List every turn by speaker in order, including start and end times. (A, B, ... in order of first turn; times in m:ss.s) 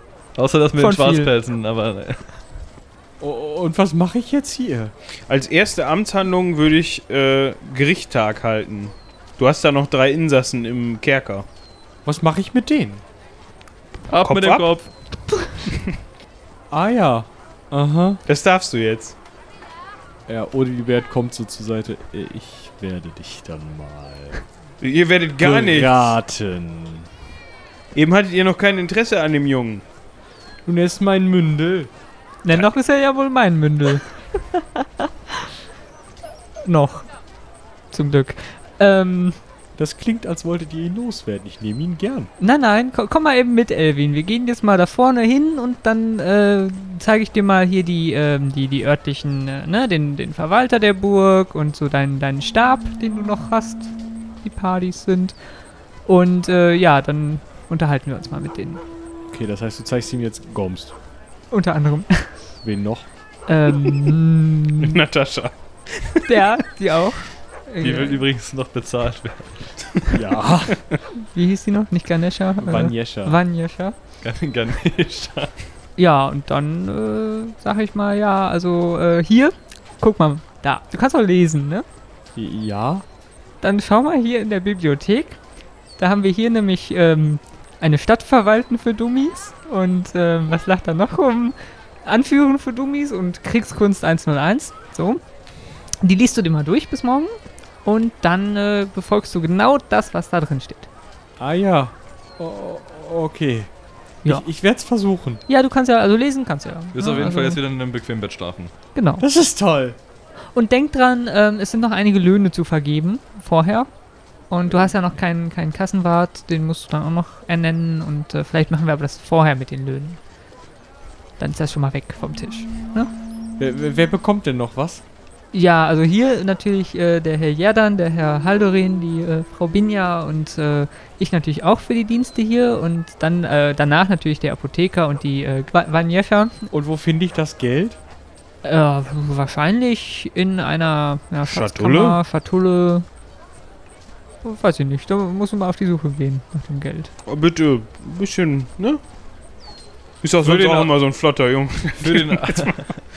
0:00.4-0:02.2 A
0:00.8-0:01.3 B
0:03.2-0:04.9 C
0:05.3-0:11.5 D
0:12.0-0:13.0 C
0:14.1-0:14.9 A
0:14.2-0:14.7 D
0:16.7-0:18.2 C
0:18.3-0:19.2 D
0:20.3-0:24.4 C
0:24.8-0:26.2 D
0:25.4-0:27.1 C
0:28.0-0:29.8 D
0:30.6-0:31.9 C
0:32.4-0:34.0 B
0:36.6-0:37.1 B
0:37.9-0:39.4 B
0:39.8-0:42.3 C
0:42.4-0:55.4 B
0:56.0-0:58.8 B
0:59.3-1:01.0 C
1:01.5-1:02.4 B
1:02.6-1:03.1 C
1:03.5-1:05.0 B
1:04.8-1:06.2 D
1:06.3-1:08.2 B
1:07.8-1:09.7 A
1:10.1-1:10.8 C
1:11.3-1:14.0 B
1:12.6-1:13.4 C
1:14.2-1:15.5 A
1:16.0-1:21.8 B
1:22.4-1:23.0 C
1:23.6-1:25.4 B
1:26.0-1:35.2 B
1:36.0-1:40.9 B
1:41.4-1:43.7 C
1:44.2-1:45.4 C
1:45.5-1:47.6 B
1:46.9-1:48.7 A
1:49.0-1:49.2 B
1:49.2-1:50.0 C
1:50.5-1:53.9 B
1:54.5-2:00.2 B
2:01.4-2:03.1 B
2:03.6-2:05.0 C
2:05.5-2:16.7 B
2:16.7-2:18.0 C
2:18.6-2:23.1 B
2:21.4-2:22.2 D
2:24.4-2:27.1 B
2:27.3-2:29.0 D
2:30.2-2:32.7 D
2:30.4-2:30.9 A
2:32.0-2:33.0 A